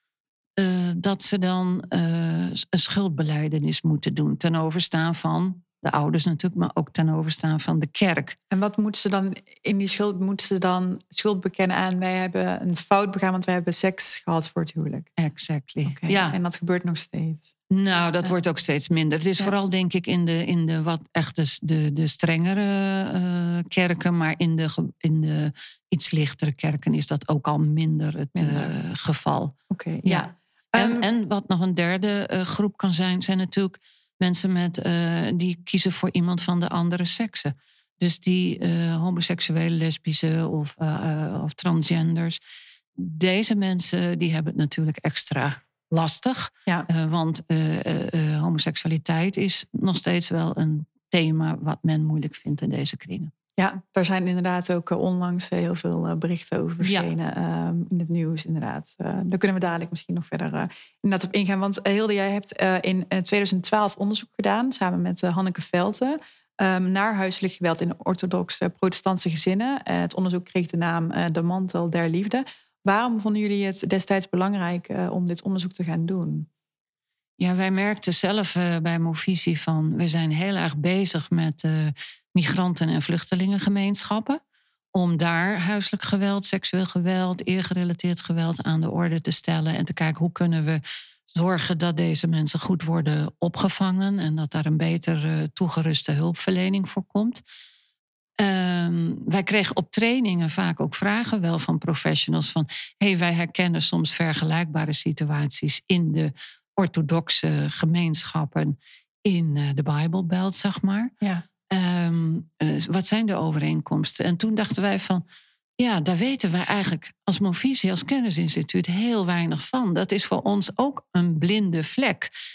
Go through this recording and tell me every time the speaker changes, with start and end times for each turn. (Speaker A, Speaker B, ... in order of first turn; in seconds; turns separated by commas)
Speaker A: 0.6-8.3, Speaker B: 8.5-15.1, Speaker A: 15.2-16.4, Speaker B: 15.8-17.5, Speaker A: 17.7-42.4, Speaker B: 28.3-28.7, Speaker B: 29.7-31.0, Speaker A: 43.0-53.3, Speaker B: 53.6-76.5, Speaker A: 56.8-57.1, Speaker A: 77.4-84.4, Speaker A: 84.9-97.4, Speaker A: 98.4-111.1, Speaker A: 111.7-115.2, Speaker A: 115.8-122.3